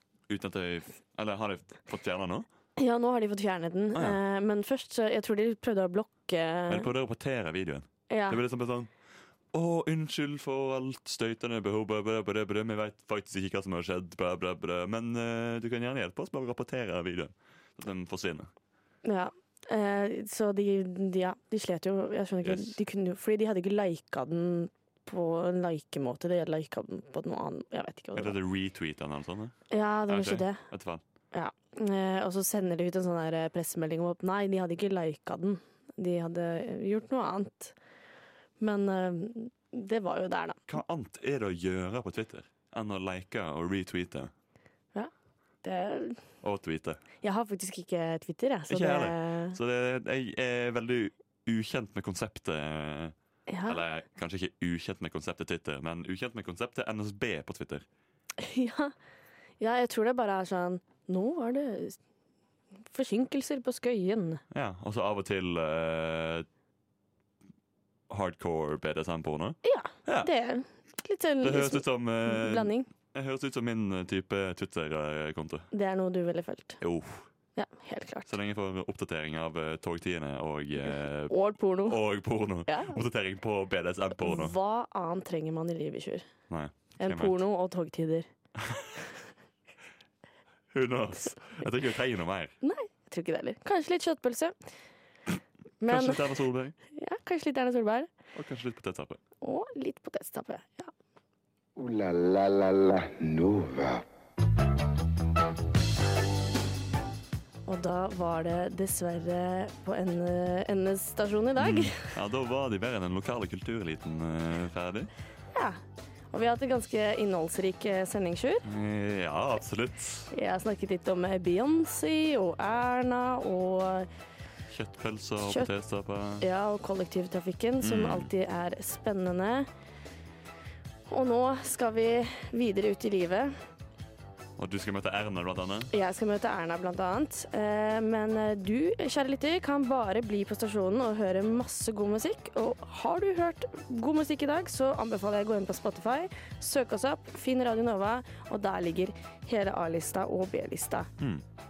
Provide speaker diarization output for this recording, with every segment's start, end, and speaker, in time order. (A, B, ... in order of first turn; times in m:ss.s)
0:00.3-0:02.5 A
0:02.8-0:06.9 B
0:06.7-0:08.9 A
0:08.1-0:08.4 B
0:09.5-0:18.5 A
0:19.0-0:28.4 B
0:22.4-0:22.8 A
0:28.1-0:29.6 A
0:29.7-0:30.6 B
0:30.1-0:31.0 A
0:31.3-0:37.7 B
0:38.6-0:40.6 B
0:40.7-0:44.3 A
0:45.6-0:46.2 B
0:46.4-0:47.0 A
0:47.2-0:49.6 B
0:48.7-0:53.1 A
0:53.5-0:53.8 B
0:53.7-0:57.8 A
0:58.4-0:58.9 B
0:59.6-1:02.0 B
1:02.9-1:04.4 B
1:04.5-1:06.5 A
1:08.1-1:10.3 A
1:09.6-1:12.9 B
1:11.4-1:15.7 A
1:15.7-1:16.8 B
1:16.8-1:17.3 A
1:17.5-1:18.3 B
1:18.3-1:24.6 A
1:21.3-1:22.0 B
1:22.7-1:23.0 B
1:24.2-1:26.3 B
1:26.5-1:27.4 A
1:27.0-1:28.2 B
1:28.6-1:28.9 A
1:30.7-1:32.5 A
1:32.6-1:34.5 B
1:35.8-1:36.3 B
1:35.9-1:36.7 A
1:36.9-1:38.1 B
1:38.3-1:39.2 A
1:39.4-1:40.9 B
1:41.8-1:44.0 C
1:47.6-1:52.1 B
1:51.6-1:55.1 A
1:55.5-1:55.8 B
1:56.3-1:58.6 B
1:58.6-2:00.3 A
2:00.3-2:04.1 B
2:04.7-2:06.4 A
2:05.4-2:05.7 B
2:06.4-2:09.7 B
2:07.8-2:08.3 A
2:11.1-2:13.5 B
2:14.6-2:15.9 A
2:15.9-2:31.1 B
2:31.2-2:31.4 A